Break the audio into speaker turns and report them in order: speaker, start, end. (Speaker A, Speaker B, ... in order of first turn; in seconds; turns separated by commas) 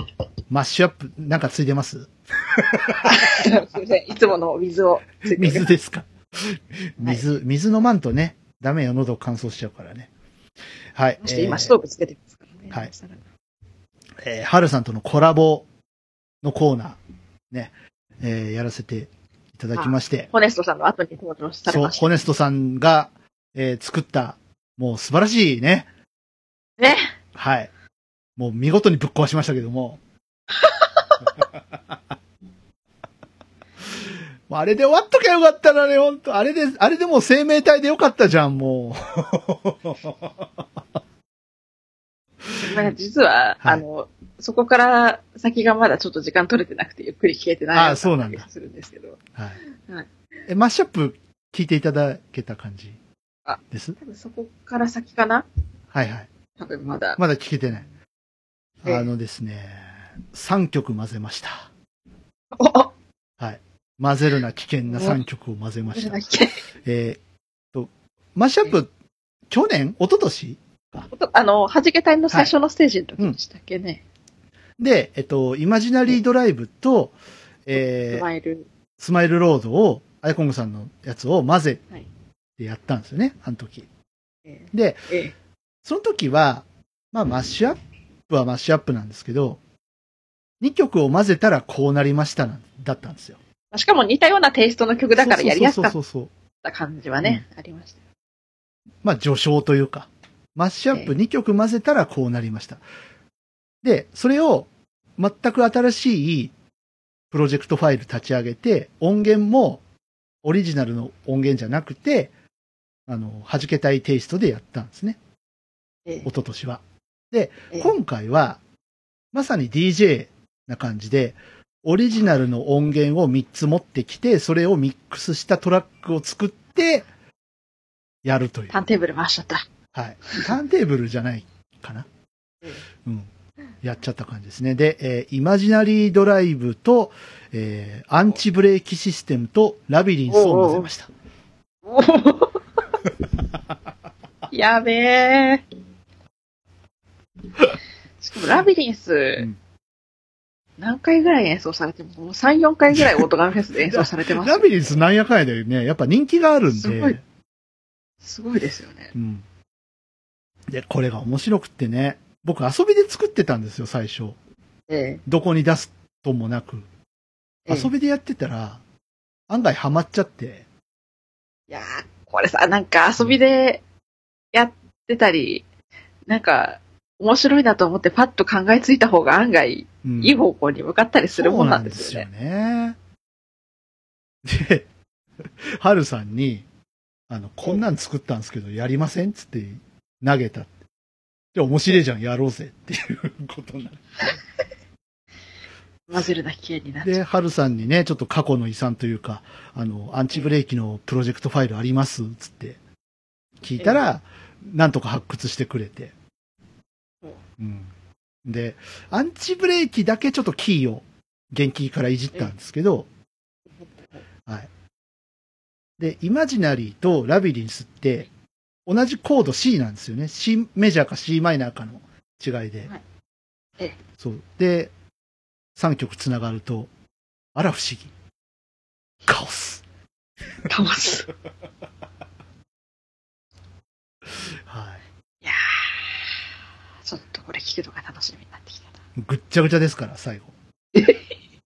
Speaker A: 0.5-3.5, Speaker B: 3.0-5.7, Speaker A: 5.3-10.1, Speaker A: 10.9-11.7, Speaker B: 11.2-13.2, Speaker A: 14.2-15.7, Speaker A: 16.4-17.0, Speaker A: 17.5-20.3, Speaker B: 19.8-22.1, Speaker A: 21.7-25.9, Speaker B: 26.8-27.1, Speaker A: 27.4-27.7, Speaker A: 28.4-30.0, Speaker A: 34.5-40.4, Speaker B: 42.5-49.2, Speaker A: 47.7-48.5, Speaker A: 50.5-53.0, Speaker B: 53.5-55.5, Speaker A: 53.7-54.0, Speaker A: 55.9-56.3, Speaker B: 56.6-57.2, Speaker A: 57.2-57.9, Speaker A: 58.8-61.7, Speaker B: 62.5-62.9, Speaker A: 63.4-66.3, Speaker B: 64.9-65.2, Speaker B: 65.9-66.6, Speaker A: 66.8-67.2, Speaker A: 67.7-68.9, Speaker A: 69.5-71.1, Speaker B: 71.1-74.0, Speaker A: 74.8-78.3, Speaker B: 78.1-78.7, Speaker A: 79.0-81.8, Speaker A: 82.6-83.9, Speaker B: 84.5-85.3, Speaker A: 84.7-85.1, Speaker A: 85.8-89.6, Speaker A: 90.6-93.4, Speaker B: 93.7-96.0, Speaker A: 95.2-96.3, Speaker B: 96.6-98.0, Speaker A: 99.0-102.8, Speaker A: 103.8-106.5, Speaker A: 107.3-109.8, Speaker A: 110.4-112.3, Speaker A: 113.1-115.2, Speaker A: 116.2-118.6, Speaker A: 119.3-127.1, Speaker A: 128.2-128.8, Speaker B: 128.7-129.7, Speaker A: 129.9-132.1, Speaker A: 133.8-141.1, Speaker B: 140.3-140.9, Speaker B: 141.8-142.6, Speaker B: 144.5-145.7, Speaker B: 148.2-149.5, Speaker B: 150.8-155.0, Speaker A: 153.9-157.2, Speaker B: 156.8-157.2, Speaker B: 158.2-159.1, Speaker A: 159.1-159.4, Speaker A: 160.7-164.4, Speaker B: 164.9-165.2, Speaker A: 165.3-166.9, Speaker A: 167.7-168.8, Speaker A: 169.5-170.7, Speaker B: 171.7-173.8, Speaker B: 174.5-175.7, Speaker B: 176.3-182.3, Speaker A: 180.0-180.4, Speaker A: 181.4-183.0, Speaker A: 184.4-184.9, Speaker A: 185.4-186.7, Speaker A: 187.3-190.7, Speaker A: 191.5-194.4, Speaker B: 196.1-197.2, Speaker A: 197.0-202.8, Speaker A: 203.6-206.1, Speaker A: 207.6-207.9, Speaker A: 208.4-213.1, Speaker B: 213.8-214.2, Speaker A: 216.0-218.3, Speaker A: 218.9-222.9, Speaker A: 224.2-224.9, Speaker A: 225.8-226.9, Speaker A: 227.6-228.1, Speaker A: 229.3-229.8, Speaker B: 230.6-231.3, Speaker A: 234.7-235.0, Speaker B: 235.4-236.3, Speaker B: 237.1-239.0, Speaker A: 239.2-240.5